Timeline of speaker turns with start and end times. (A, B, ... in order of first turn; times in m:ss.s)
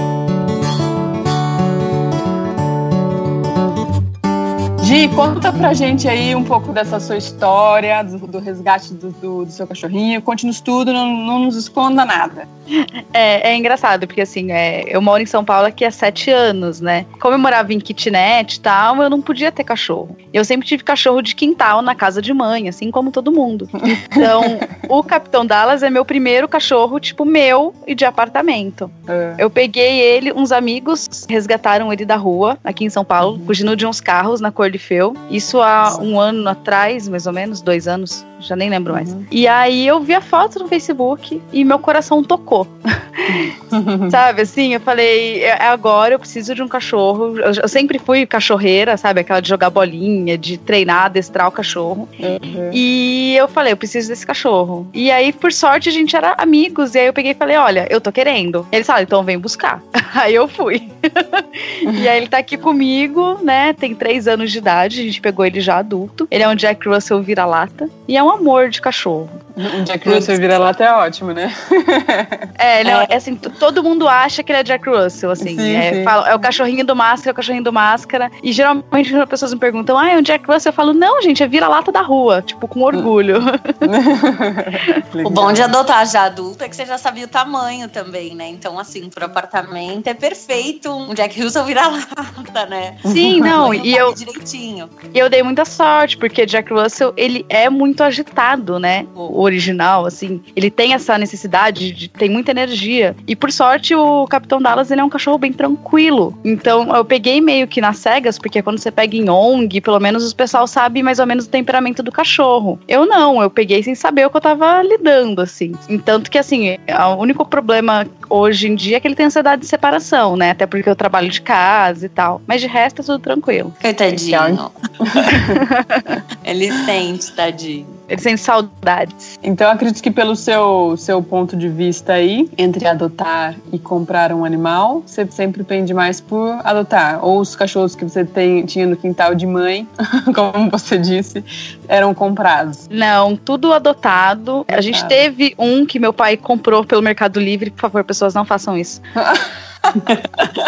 0:04.8-0:12.5 A
0:12.8-0:43.6 B
0:23.9-0:24.7 A
0:29.1-0:29.4 A
0:33.2-0:33.5 A
0:38.9-0:39.2 A
0:43.3-0:44.2 A
0:44.1-0:52.1 B
0:52.2-0:52.8 A
0:52.7-1:09.4 B
1:09.6-1:12.5 A
1:10.0-1:10.4 B
1:12.6-1:23.9 B
1:12.8-1:13.2 C
1:15.4-1:16.2 A
1:23.8-1:25.7 A
1:25.2-1:35.0 C
1:33.0-1:33.5 A
1:33.1-1:34.2 B
1:35.1-2:03.7 B
2:03.8-2:04.7 C
2:04.1-2:05.6 A
2:05.3-2:06.2 B
2:06.4-2:07.9 C
2:08.1-2:09.3 B
2:09.4-2:22.8 A
2:22.9-2:29.0 B
2:24.7-2:25.2 A
2:29.2-2:30.1 A